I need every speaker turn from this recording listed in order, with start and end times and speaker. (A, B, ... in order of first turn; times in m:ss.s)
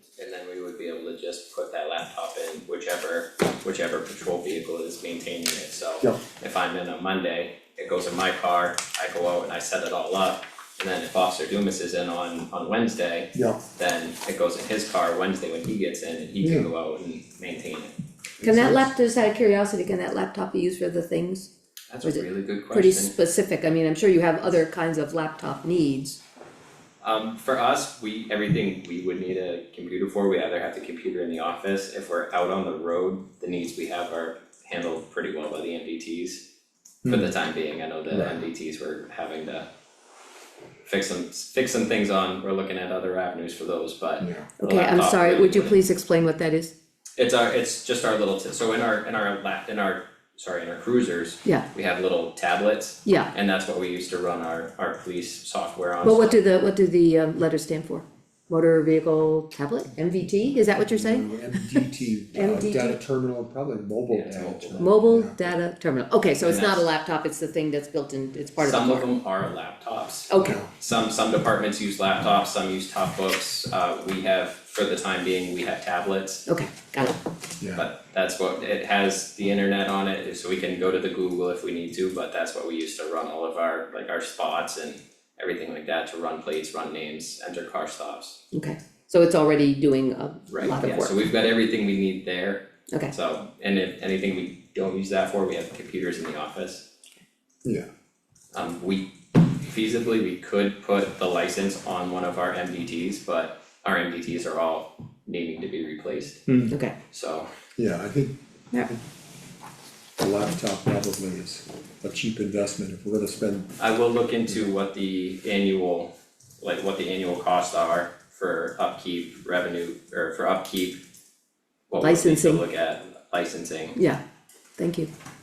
0:00.2-0:18.8 A
0:16.4-0:16.7 B
0:18.4-0:21.5 C
0:21.9-0:23.1 A
0:22.0-0:26.2 C
0:27.0-0:36.4 A
0:37.0-0:37.3 B
0:37.1-0:39.7 A
0:38.1-0:38.4 B
0:40.8-0:45.8 A
0:44.2-0:44.5 B
0:44.6-0:46.7 C
0:47.2-0:56.4 A
0:53.1-0:53.3 C
0:56.0-1:01.3 C
1:00.0-1:05.4 B
1:02.3-1:03.0 C
1:04.1-1:05.0 A
1:04.8-1:09.1 C
1:06.4-1:06.9 A
1:08.6-1:16.5 A
1:10.3-1:10.6 C
1:10.4-1:10.7 B
1:16.5-1:17.2 C
1:17.6-1:17.9 B
1:17.7-1:28.4 A
1:28.5-1:31.2 C
1:30.5-1:36.8 A
1:38.5-1:46.5 A
1:46.7-1:47.0 C
1:47.1-1:47.5 A
1:47.8-1:48.4 B
1:50.2-1:53.7 B
1:53.8-1:56.1 A
1:56.6-2:01.0 A
2:01.9-2:04.0 A
2:02.0-2:02.6 C
2:04.0-2:04.2 C
2:04.8-2:05.1 C